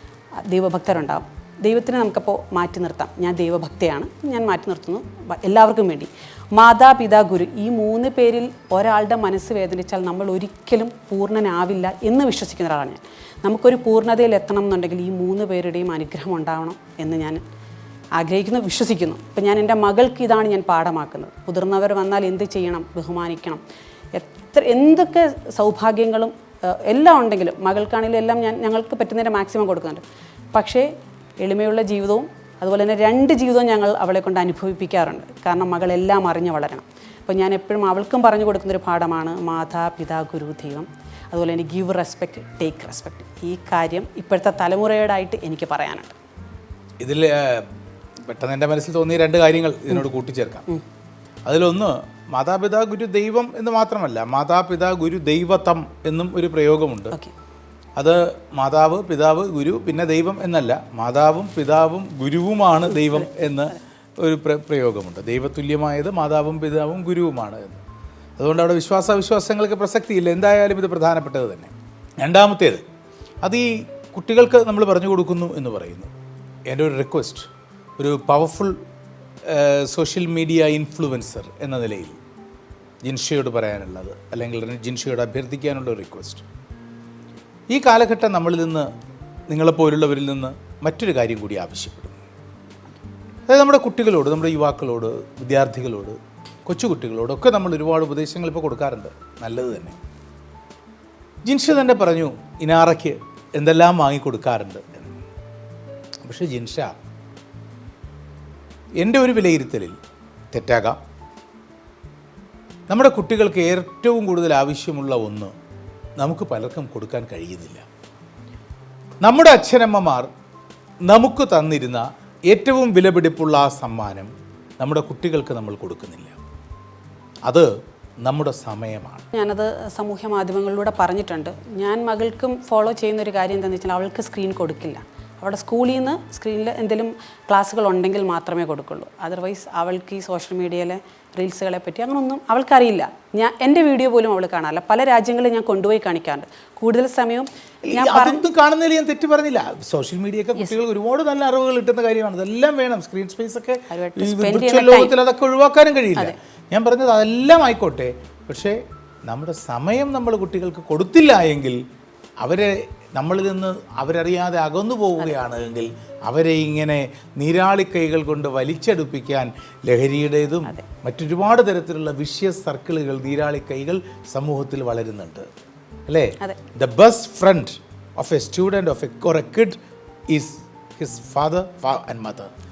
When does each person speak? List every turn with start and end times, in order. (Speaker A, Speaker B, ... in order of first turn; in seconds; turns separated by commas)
Speaker A: 0.4-17.4, Speaker A: 18.2-23.6, Speaker A: 24.1-46.2, Speaker B: 47.0-47.7, Speaker B: 48.2-50.7, Speaker B: 51.5-57.2, Speaker B: 58.0-67.8, Speaker A: 63.0-63.3, Speaker B: 68.4-72.8, Speaker B: 73.4-76.1, Speaker B: 76.7-78.8, Speaker B: 79.5-82.2, Speaker B: 83.0-86.4, Speaker B: 87.7-88.9, Speaker B: 89.5-92.2, Speaker B: 93.5-100.0, Speaker B: 101.5-105.2, Speaker B: 106.2-107.0, Speaker B: 109.0-110.0, Speaker B: 110.5-111.0, Speaker B: 112.9-115.5, Speaker B: 116.2-117.8, Speaker B: 119.2-120.3, Speaker B: 121.0-126.4, Speaker B: 127.5-127.7, Speaker B: 128.2-129.3, Speaker A: 129.3-148.4, Speaker B: 147.8-161.8, Speaker A: 153.9-155.2, Speaker B: 162.4-175.5, Speaker B: 176.1-179.8, Speaker B: 180.3-182.5